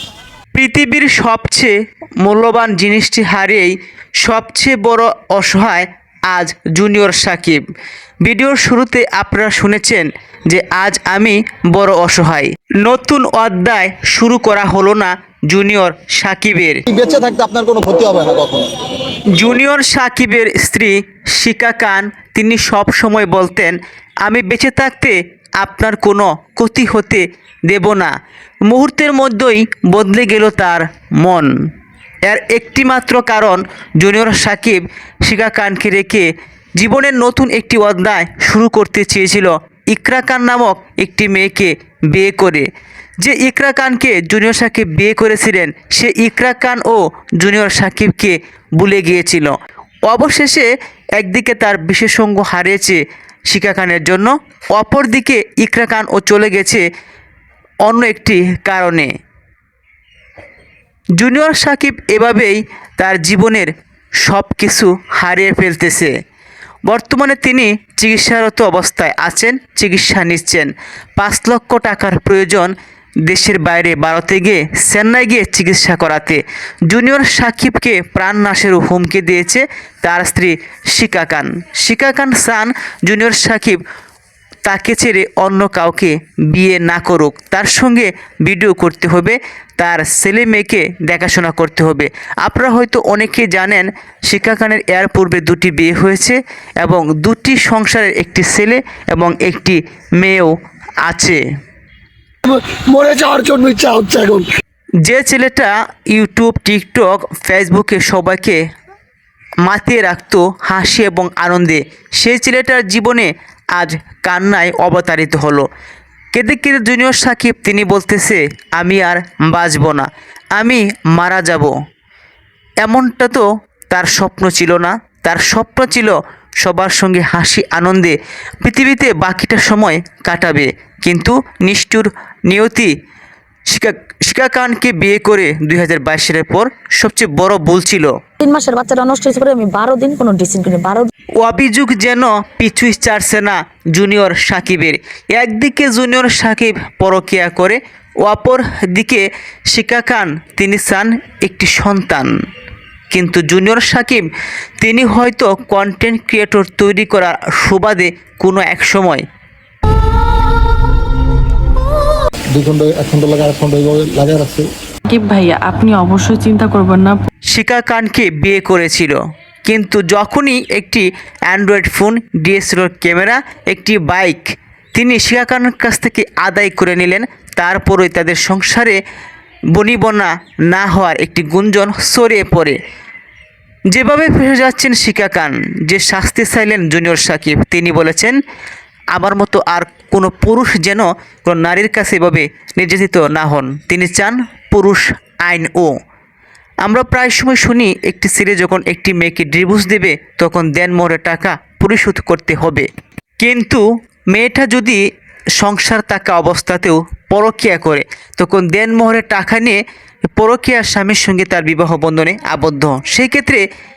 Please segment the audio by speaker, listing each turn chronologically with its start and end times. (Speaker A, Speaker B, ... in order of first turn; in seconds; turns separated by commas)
Speaker A: 0.5-7.6, Speaker A: 8.2-16.8, Speaker B: 16.9-18.7, Speaker A: 19.3-28.1, Speaker A: 28.7-31.5, Speaker A: 32.2-42.7, Speaker A: 43.2-49.5, Speaker A: 50.1-56.8, Speaker A: 57.9-59.1, Speaker A: 61.2-63.7, Speaker A: 64.2-66.1, Speaker A: 66.9-72.7, Speaker A: 73.2-83.8, Speaker A: 84.7-101.4, Speaker C: 102.5-104.4, Speaker A: 105.0-108.6, Speaker A: 109.6-115.7, Speaker A: 116.3-121.7, Speaker A: 122.8-132.9, Speaker A: 133.7-138.1, Speaker D: 138.4-141.1, Speaker A: 141.4-152.3, Speaker A: 153.1-154.2, Speaker A: 154.8-159.2, Speaker B: 162.5-164.7, Speaker E: 165.1-167.2, Speaker A: 167.5-174.4, Speaker A: 174.9-179.0, Speaker A: 179.7-182.8, Speaker A: 183.9-188.4, Speaker A: 189.1-195.9, Speaker A: 196.8-202.9, Speaker A: 203.4-205.0, Speaker A: 205.6-209.8, Speaker A: 210.4-213.6